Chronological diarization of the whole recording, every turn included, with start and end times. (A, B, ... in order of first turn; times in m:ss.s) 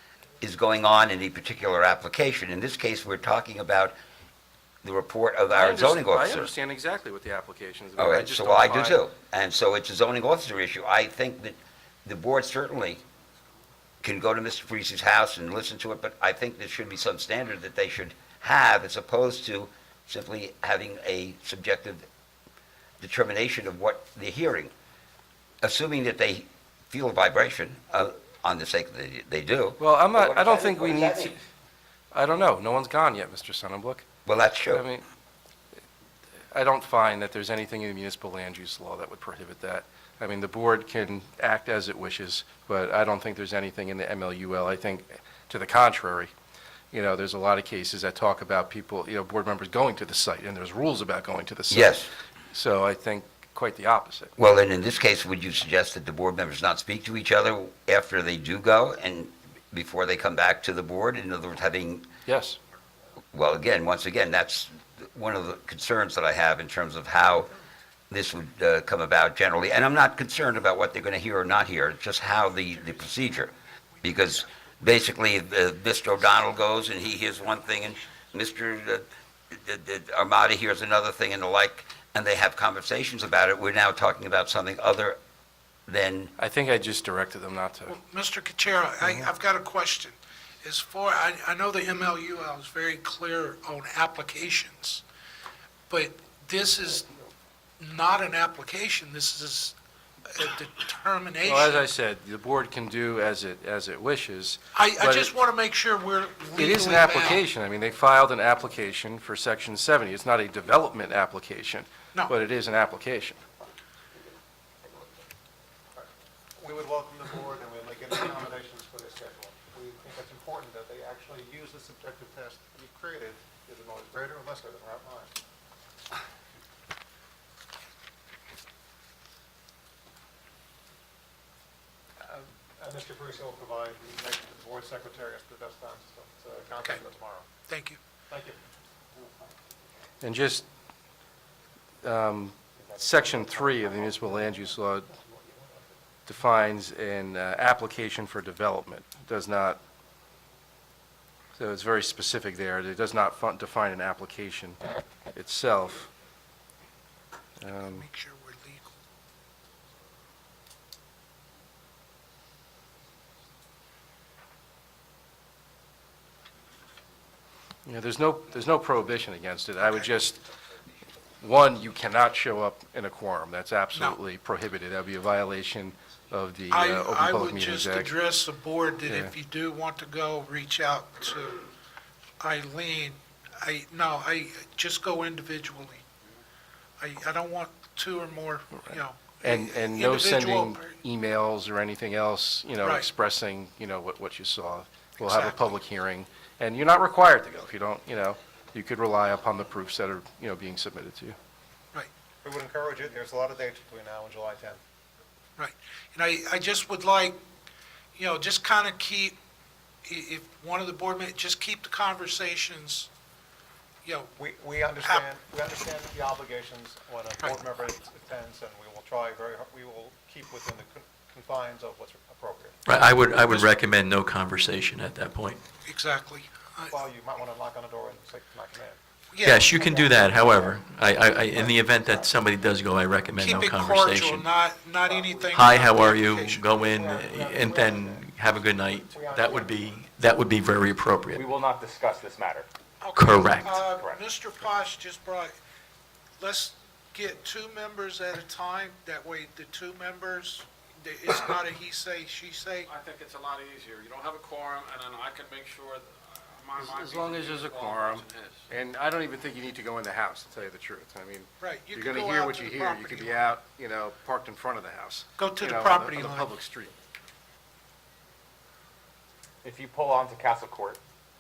0:00.4-0:04.0 A
0:04.8-0:06.5 A
0:05.5-0:09.0 B
0:08.0-0:13.0 A
0:14.0-0:22.0 A
0:23.0-0:24.7 A
0:25.6-0:31.4 A
0:29.8-0:31.4 B
0:32.1-0:34.0 B
0:34.2-0:34.8 A
0:34.7-0:35.0 B
0:36.5-0:46.3 B
0:46.9-0:54.3 B
0:51.7-0:52.1 A
0:54.4-1:02.1 A
1:02.2-1:02.6 B
1:03.3-1:07.5 A
1:08.1-1:25.2 A
1:25.9-1:26.3 A
1:26.4-1:28.0 B
1:27.9-1:35.0 C
1:29.0-1:29.3 B
1:35.9-1:37.1 C
1:37.8-1:39.8 C
1:40.3-1:41.8 C
1:41.4-1:45.3 B
1:44.7-1:47.4 C
1:46.6-1:53.4 B
1:55.9-2:05.3 D
2:12.2-2:17.5 D
2:17.7-2:18.0 C
2:18.3-2:18.6 D
2:20.2-2:20.6 B
2:22.0-2:25.1 B
2:22.9-2:25.8 D
2:26.2-2:29.8 B
2:31.6-2:34.8 B
2:35.3-2:36.1 B
2:37.6-2:38.0 B
2:37.7-2:38.9 C
2:47.8-2:50.4 B
2:49.8-2:50.1 C
2:51.4-2:58.1 B
2:56.7-3:01.6 C
2:59.1-2:59.3 B
3:02.4-3:06.0 C
3:07.0-3:10.9 C
3:09.4-3:21.4 B
3:12.8-3:13.1 C
3:15.2-3:15.8 C
3:22.4-3:24.8 D
3:25.6-3:27.4 C
3:28.1-3:29.4 C
3:30.0-3:33.1 C
3:34.0-3:34.3 C
3:34.4-3:42.8 D
3:42.8-3:45.6 E
3:45.8-3:47.0 C
3:46.9-3:49.0 D
3:49.3-3:49.8 C
3:49.4-3:54.5 E
3:49.7-3:52.4 D
3:53.4-3:56.6 C
3:55.0-4:00.0 D
3:55.5-4:01.4 E
4:01.3-4:02.7 F
4:03.0-4:05.5 C
4:03.1-4:03.8 E
4:03.7-4:04.2 F
4:06.4-4:12.9 C
4:12.9-4:18.6 G
4:16.8-4:26.9 B
4:21.6-4:23.5 C
4:25.4-4:26.5 C
4:29.6-4:31.0 F